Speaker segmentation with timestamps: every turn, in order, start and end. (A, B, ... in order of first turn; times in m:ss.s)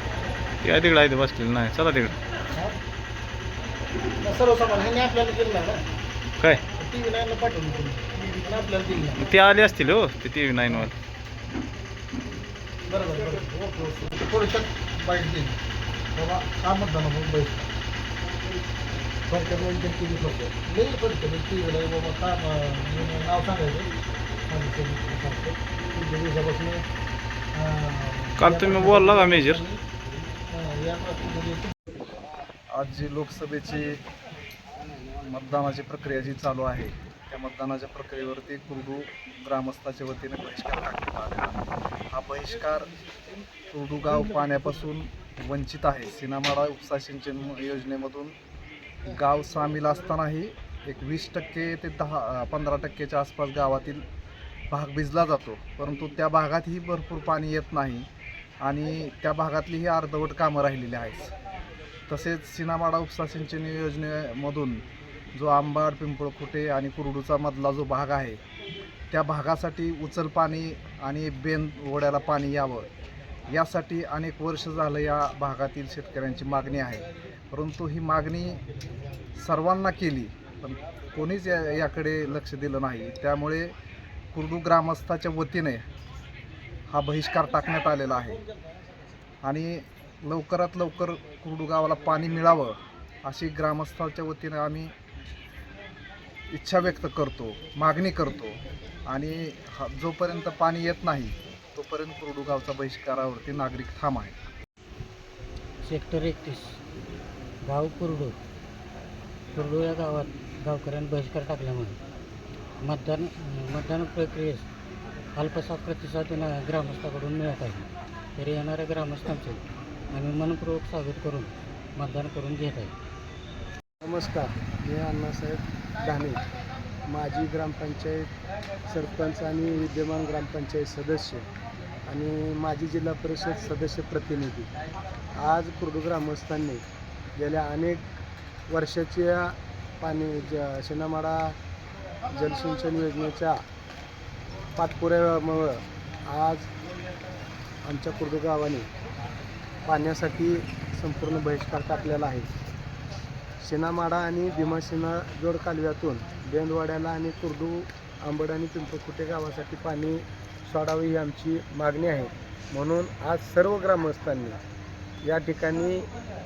0:00.6-0:02.1 A
0:04.2-0:05.8 B
0:06.8-0:09.2 B
0:09.2-0:10.9 A
0:12.9-0:15.6 B
0:16.2-0:17.7 B
0:19.3-0:23.9 B
0:24.5-0:26.9 B
0:27.5-0:29.8 B
0:28.4-0:29.6 A
0:30.5-0:31.7 B
0:32.7-0:34.0 C
0:35.2-0:42.9 C
0:43.7-0:48.3 C
0:49.1-0:54.0 C
0:54.7-0:58.1 C
0:58.6-1:01.3 C
1:02.1-1:04.8 C
1:05.3-1:08.4 C
1:09.1-1:12.9 C
1:13.5-1:18.6 C
1:19.4-1:23.7 C
1:24.3-1:25.8 C
1:26.9-1:28.4 C
1:29.4-1:34.9 C
1:36.5-1:44.3 C
1:45.8-1:46.8 D
1:47.6-1:48.3 D
1:49.5-1:52.0 D
1:52.8-1:54.7 D
1:55.3-2:02.9 D
2:04.0-2:06.4 E
2:07.1-2:08.3 E
2:08.9-2:11.5 E
2:12.1-2:14.7 E
2:15.4-2:16.8 E
2:17.4-2:18.0 E
2:18.7-2:21.6 E
2:22.3-2:23.6 E
2:24.8-2:26.7 E
2:27.8-2:28.9 E
2:29.8-2:32.5 E
2:33.6-2:44.6 E
2:45.2-2:46.1 E